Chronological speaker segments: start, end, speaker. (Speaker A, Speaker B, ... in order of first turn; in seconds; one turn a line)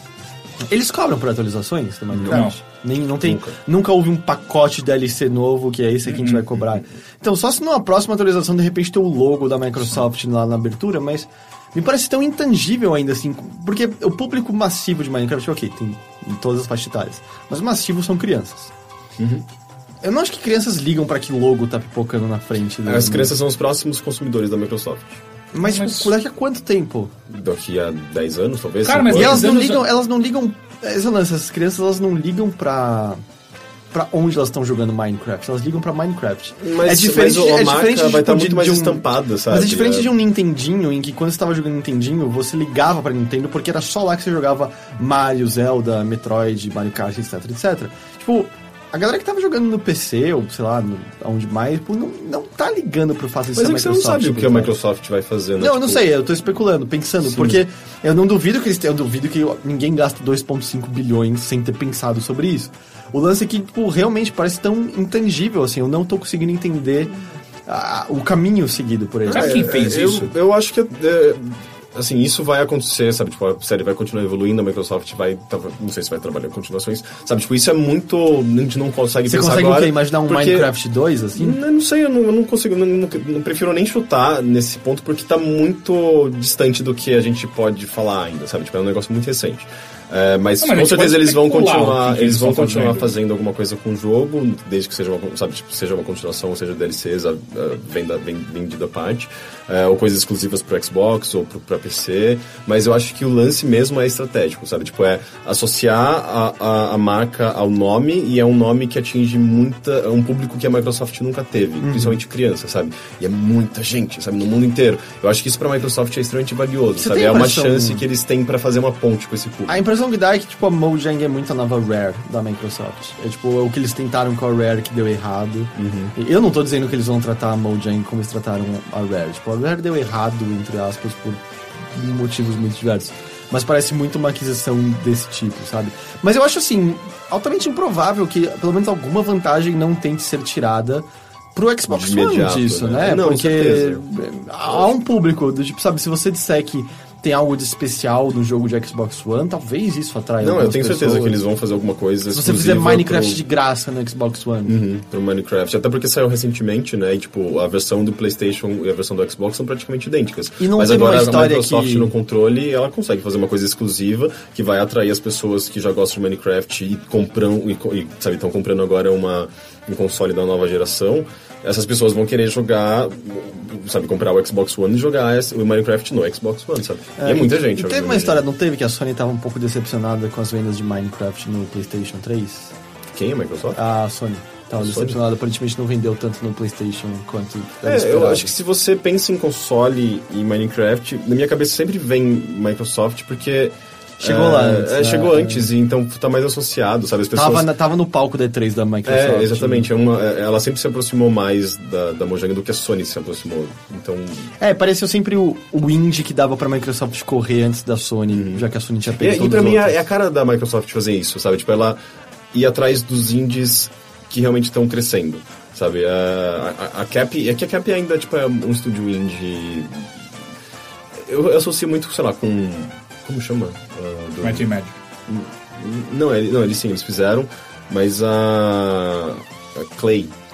Speaker A: 0.7-18.7
Speaker B: 2.1-2.4
Speaker C: 2.3-2.6
Speaker B: 3.2-3.6
Speaker C: 6.1-6.5
Speaker B: 19.2-19.4
Speaker A: 20.0-23.3
Speaker B: 22.9-25.2
Speaker A: 25.5-27.1
Speaker C: 25.6-26.1
Speaker B: 27.3-29.5
Speaker C: 28.9-29.9
Speaker A: 29.1-33.2
Speaker A: 33.9-54.7
Speaker B: 36.6-40.1
Speaker B: 53.5-56.1
Speaker A: 55.6-67.1
Speaker B: 57.3-57.6
Speaker A: 67.7-69.6
Speaker B: 69.3-80.7
Speaker C: 69.3-70.3
Speaker A: 79.3-81.6
Speaker B: 81.4-119.8
Speaker C: 90.6-93.1
Speaker A: 111.8-112.2
Speaker A: 117.0-118.0
Speaker A: 119.7-151.4
Speaker B: 125.8-126.1
Speaker B: 141.9-144.0
Speaker B: 144.7-144.9
Speaker B: 150.4-153.4
Speaker A: 152.3-154.8
Speaker B: 154.7-178.4
Speaker A: 160.6-162.1
Speaker A: 177.2-182.7
Speaker B: 183.1-183.8
Speaker A: 183.7-188.5
Speaker B: 184.8-185.2
Speaker B: 187.8-197.7
Speaker A: 194.2-195.7
Speaker A: 197.3-199.9
Speaker B: 199.1-204.5
Speaker A: 204.6-210.0
Speaker B: 208.3-208.6
Speaker B: 209.2-212.0
Speaker B: 212.5-220.1
Speaker B: 221.2-224.7
Speaker C: 224.4-225.0
Speaker B: 225.3-230.3